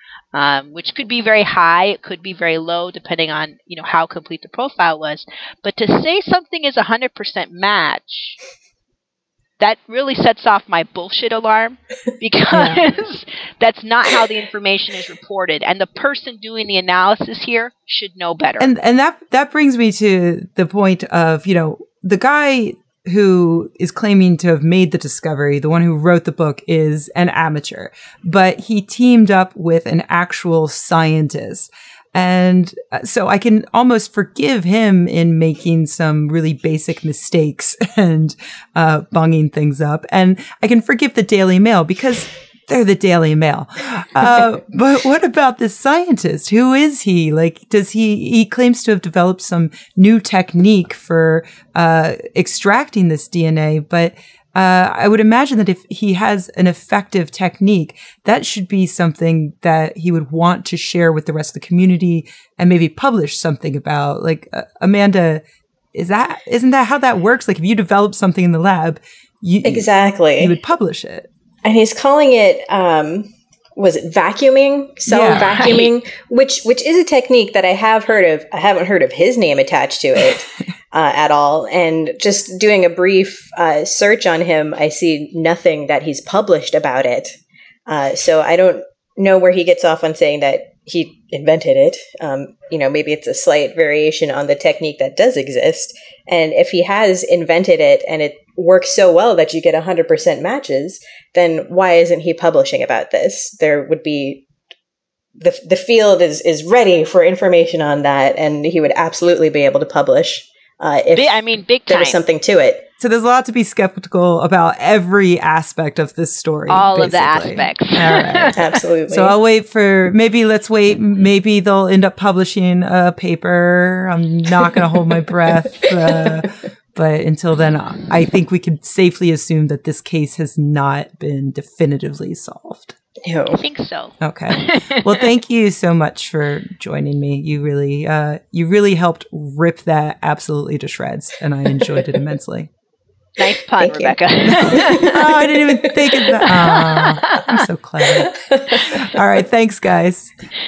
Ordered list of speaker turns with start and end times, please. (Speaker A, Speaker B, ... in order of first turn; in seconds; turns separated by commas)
Speaker A: 0.3-8.4, Speaker A: 9.6-18.7, Speaker B: 12.5-12.8, Speaker C: 18.6-65.4, Speaker C: 65.9-71.3, Speaker B: 69.6-70.5, Speaker B: 71.6-87.3, Speaker C: 75.1-75.7, Speaker A: 75.5-75.9, Speaker B: 87.9-104.4, Speaker B: 105.4-112.8, Speaker A: 111.1-112.2, Speaker C: 113.0-132.9, Speaker A: 116.7-118.6, Speaker B: 118.5-119.4, Speaker B: 133.2-133.6, Speaker A: 133.5-135.2, Speaker C: 134.2-142.7, Speaker A: 143.4-145.1, Speaker B: 143.8-146.3, Speaker C: 144.4-150.3, Speaker A: 146.6-147.6, Speaker B: 148.3-148.9